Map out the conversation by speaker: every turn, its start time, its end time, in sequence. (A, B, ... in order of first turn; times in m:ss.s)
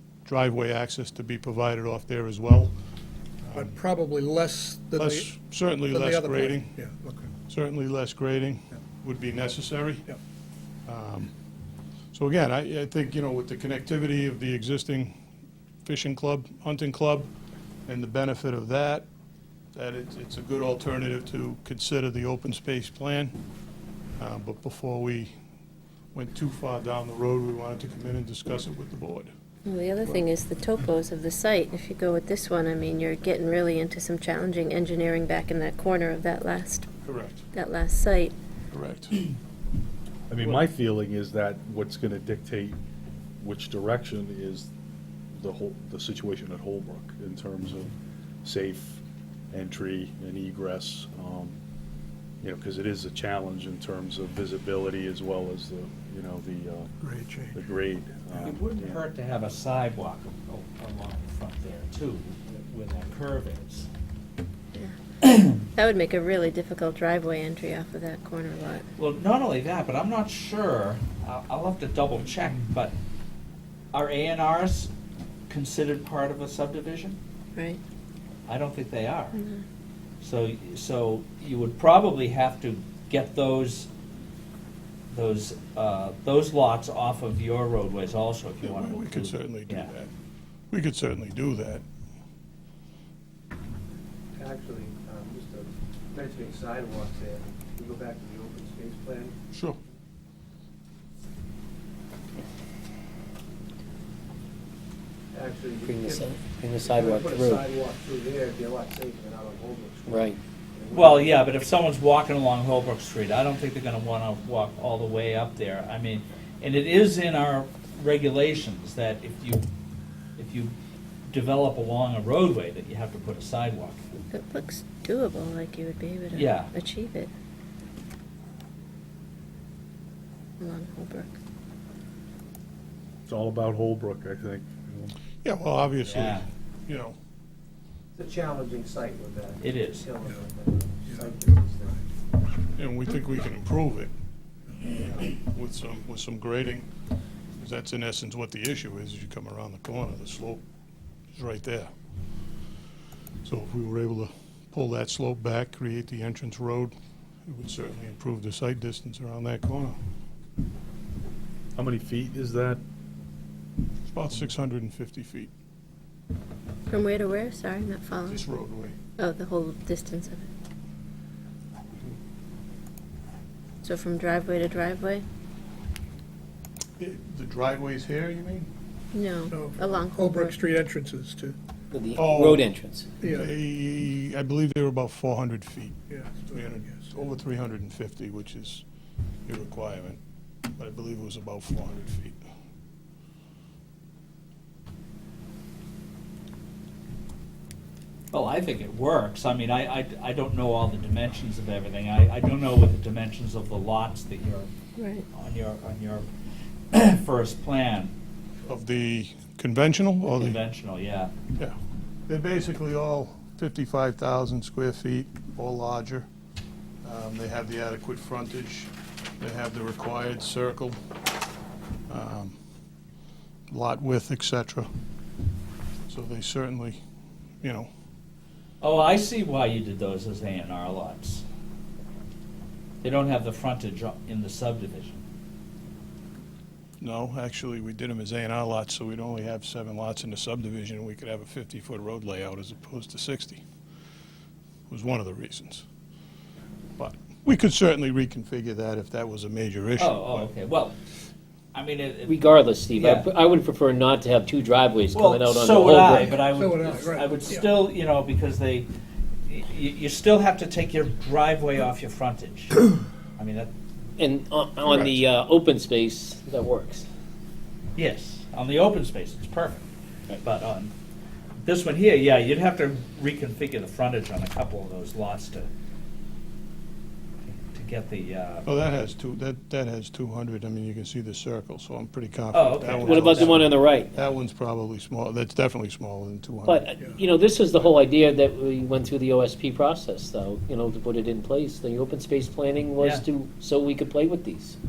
0:00.2-0:02.7 A
0:03.4-0:03.8 A
0:03.5-0:07.3 B
0:04.9-0:06.7 A
0:07.5-0:10.0 A
0:10.8-0:11.3 A
0:12.1-0:15.2 A
0:15.8-0:17.3 A
0:17.9-0:19.1 A
0:19.7-0:23.3 A
0:24.2-0:25.3 A
0:26.1-0:29.3 A
0:29.6-0:36.9 C
0:37.0-0:37.4 A
0:37.5-0:38.3 C
0:38.7-0:39.2 A
0:40.3-0:42.8 D
0:43.4-0:44.7 D
0:45.3-0:51.6 D
0:52.4-0:57.0 D
0:57.0-0:57.6 B
0:57.5-0:59.0 D
0:58.3-1:03.9 E
1:05.6-1:08.9 C
1:09.0-1:12.9 E
1:13.9-1:14.9 E
1:15.5-1:17.2 E
1:18.5-1:19.4 E
1:19.3-1:19.6 C
1:20.2-1:23.9 E
1:25.1-1:29.9 E
1:28.6-1:30.1 A
1:30.7-1:31.8 A
1:34.4-1:39.3 F
1:39.5-1:39.8 A
1:45.3-1:51.3 F
1:46.0-1:47.5 G
1:50.9-1:59.7 E
2:00.4-2:00.7 E
2:01.3-2:04.0 E
2:04.3-2:07.3 C
2:06.3-2:06.7 E
2:10.6-2:11.4 C
2:13.3-2:15.1 D
2:15.4-2:17.1 A
2:16.1-2:16.4 E
2:18.2-2:19.6 F
2:19.3-2:22.0 B
2:19.6-2:20.1 E
2:20.2-2:21.9 F
2:22.8-2:24.1 A
2:24.8-2:26.9 A
2:27.6-2:30.6 A
2:31.3-2:31.9 A
2:33.4-2:36.9 A
2:37.4-2:40.0 A
2:41.7-2:42.8 D
2:44.1-2:45.5 A
2:46.9-2:48.4 C
2:48.3-2:48.9 A
2:49.2-2:50.5 C
2:53.8-2:55.2 C
2:57.0-2:58.7 A
2:59.1-3:00.6 C
2:59.5-3:01.6 B
3:02.0-3:03.0 G
3:02.2-3:08.8 A
3:03.2-3:03.5 B
3:06.1-3:07.1 B
3:09.4-3:10.2 A
3:10.7-3:12.4 A
3:18.3-3:24.7 E
3:25.0-3:25.2 C
3:25.3-3:26.2 E
3:26.9-3:28.1 E
3:28.7-3:30.6 A
3:30.3-3:31.3 E
3:32.3-3:36.3 A
3:37.0-3:41.0 A
3:42.1-3:42.6 A
3:43.7-3:44.9 A
3:46.1-3:47.0 A
3:47.6-3:47.9 A
3:48.8-3:51.4 E
3:53.0-3:55.2 E
3:57.0-4:03.6 A
4:04.9-4:05.8 A
4:07.0-4:10.5 A
4:10.0-4:10.9 E
4:11.7-4:13.3 E
4:12.2-4:16.4 G
4:15.1-4:18.9 E
4:16.5-4:17.7 B
4:19.4-4:23.7 E
4:24.2-4:27.0 G
4:24.9-4:25.2 E
4:28.0-4:29.8 E
4:30.4-4:30.9 E
4:31.6-4:35.7 E
4:37.5-4:38.7 E
4:38.6-4:46.9 A
4:42.5-4:43.7 E
4:43.0-4:44.1 G
4:46.6-4:54.7 G
4:53.0-4:53.2 E